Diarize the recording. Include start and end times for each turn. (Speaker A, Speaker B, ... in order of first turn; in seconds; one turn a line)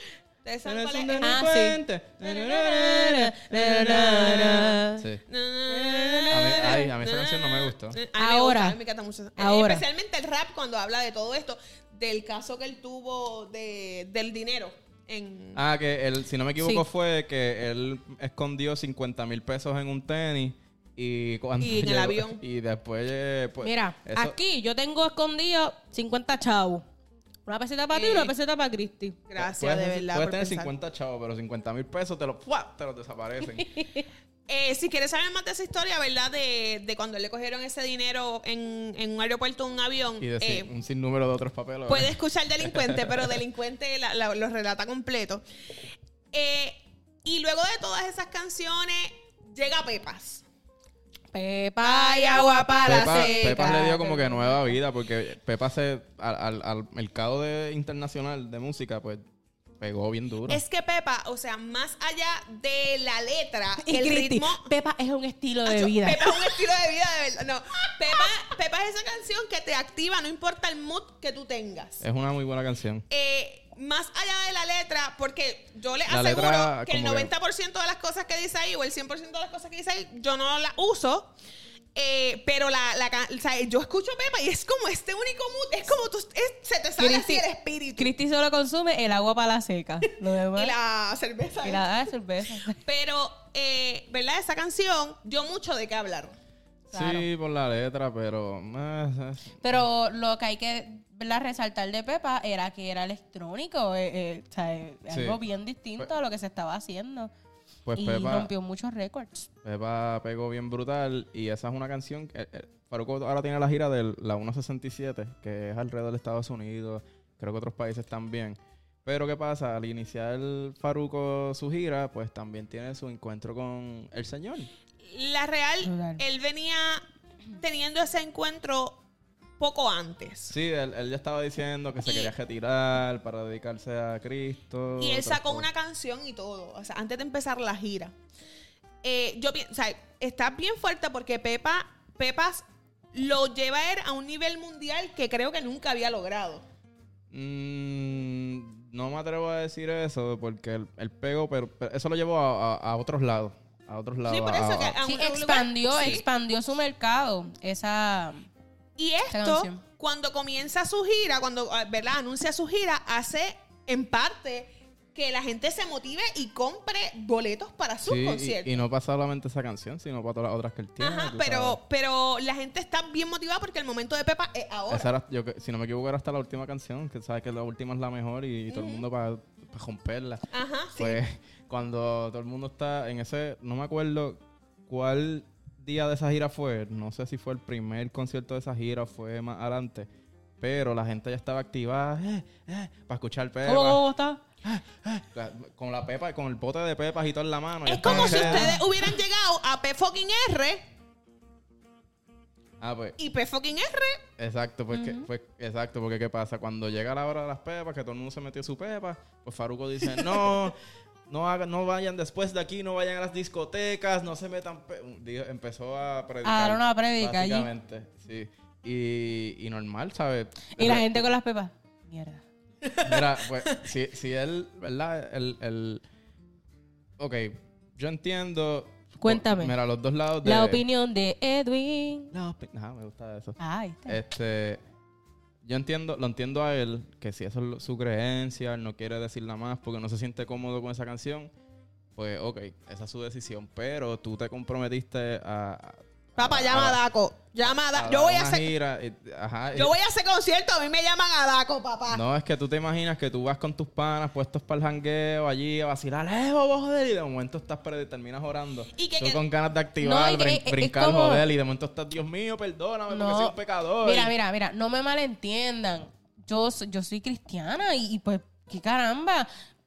Speaker A: 0.4-1.4
Speaker B: 0.6-5.2
Speaker C: 1.2-5.0
Speaker A: 5.3-15.6
Speaker C: 5.7-6.8
Speaker B: 6.3-8.0
Speaker C: 8.2-8.8
Speaker C: 9.4-9.8
Speaker B: 15.5-24.4
Speaker C: 16.6-16.8
Speaker A: 21.6-22.4
Speaker C: 23.6-26.8
Speaker C: 27.4-29.2
Speaker A: 27.9-28.3
Speaker A: 29.3-30.7
Speaker B: 29.4-33.7
Speaker C: 33.6-34.0
Speaker A: 34.5-40.7
Speaker B: 40.2-43.4
Speaker A: 41.9-45.4
Speaker A: 46.3-50.4
Speaker C: 51.3-54.6
Speaker A: 51.8-53.8
Speaker B: 52.9-59.2
Speaker B: 59.8-60.6
Speaker A: 60.5-64.7
Speaker C: 63.8-66.6
Speaker A: 65.7-72.0
Speaker B: 72.0-73.0
Speaker A: 73.1-81.3
Speaker B: 76.1-77.3
Speaker A: 82.0-88.1
Speaker C: 87.0-87.4
Speaker C: 88.0-90.7
Speaker A: 90.5-91.9
Speaker C: 91.6-92.8
Speaker A: 92.7-96.3
Speaker C: 96.9-97.2
Speaker B: 96.9-99.8
Speaker C: 99.6-107.3
Speaker B: 105.1-105.4
Speaker B: 107.8-108.5
Speaker C: 108.0-109.5
Speaker B: 109.6-124.7
Speaker A: 125.0-127.0
Speaker C: 125.8-126.2
Speaker A: 127.6-129.0
Speaker A: 129.6-130.5
Speaker B: 130.5-135.7
Speaker A: 132.0-132.3
Speaker A: 135.0-138.1
Speaker A: 139.0-146.6
Speaker B: 147.3-155.0
Speaker A: 154.2-156.2
Speaker C: 155.0-158.5
Speaker A: 159.0-168.8
Speaker C: 159.3-159.8
Speaker B: 168.0-171.8
Speaker A: 171.0-175.1
Speaker B: 174.9-190.1
Speaker A: 178.7-179.1
Speaker A: 180.5-181.2
Speaker B: 190.6-194.0
Speaker C: 193.6-194.4
Speaker B: 194.6-198.8
Speaker A: 197.8-200.8
Speaker C: 198.0-198.9
Speaker B: 202.8-203.2
Speaker A: 203.2-204.2
Speaker B: 204.4-210.8
Speaker C: 204.9-205.3
Speaker B: 211.3-221.3
Speaker C: 216.4-217.7
Speaker C: 220.7-222.4
Speaker B: 223.0-226.0
Speaker B: 227.2-230.8
Speaker C: 229.2-229.7
Speaker C: 230.4-232.3
Speaker B: 232.3-234.8
Speaker C: 233.6-234.2
Speaker B: 235.6-241.5
Speaker B: 242.2-247.0
Speaker A: 246.3-248.7
Speaker B: 247.9-249.9
Speaker A: 249.7-252.2
Speaker B: 252.1-264.3
Speaker A: 258.9-259.4
Speaker C: 260.0-261.4
Speaker C: 263.1-269.5